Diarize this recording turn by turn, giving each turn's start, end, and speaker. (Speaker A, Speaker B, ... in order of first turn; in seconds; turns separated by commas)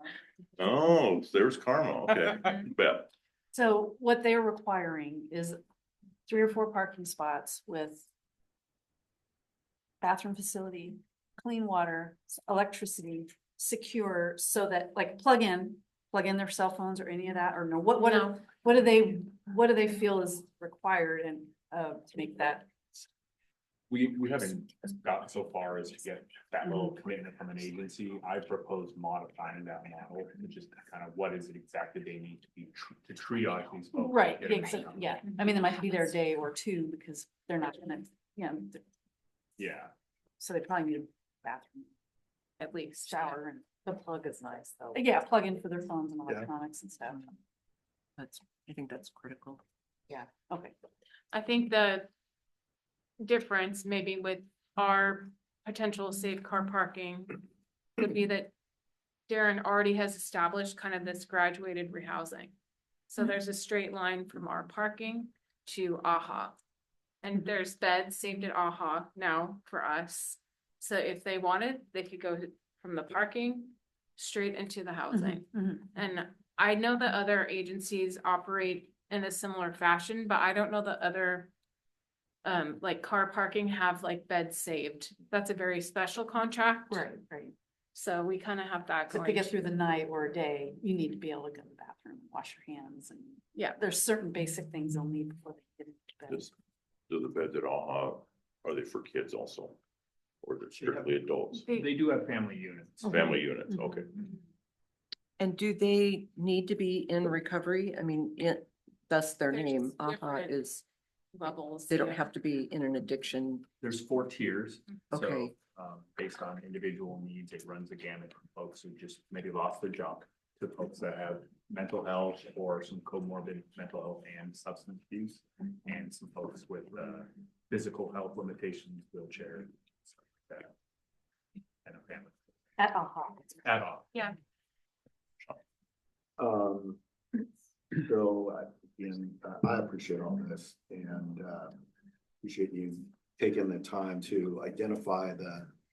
Speaker A: 0.6-3.1, Speaker B: 3.5-5.6, Speaker B: 6.3-8.1, Speaker B: 10.0-22.7, Speaker C: 18.0-18.4, Speaker D: 23.9-35.7, Speaker B: 34.0-38.8, Speaker D: 39.6-39.9, Speaker B: 40.4-41.9, Speaker C: 42.6-43.4, Speaker B: 43.0-43.8, Speaker E: 43.9-45.0, Speaker B: 44.9-47.3, Speaker E: 48.2-49.6, Speaker B: 50.1-50.7, Speaker C: 51.3-52.1, Speaker C: 53.2-57.4, Speaker C: 58.0-58.5, Speaker C: 59.3-62.5, Speaker C: 63.1-66.6, Speaker C: 67.2-81.5, Speaker B: 75.1-75.8, Speaker C: 82.4-87.1, Speaker B: 86.9-87.5, Speaker C: 87.9-89.6, Speaker B: 89.1-96.5, Speaker A: 97.1-99.8, Speaker A: 100.4-101.7, Speaker D: 100.8-101.1, Speaker C: 101.7-101.9, Speaker D: 101.7-103.3, Speaker A: 103.0-104.2, Speaker E: 105.4-110.8, Speaker C: 109.5-110.6, Speaker C: 111.3-112.3, Speaker E: 111.9-113.7, Speaker D: 113.8-130.7, Speaker E: 115.1-115.5, Speaker D: 131.8-132.4, Speaker B: 132.8-133.8, Speaker D: 133.6-134.1, Speaker F: 136.4-137.0, Speaker F: 138.0-141.8, Speaker F: 142.4-145.7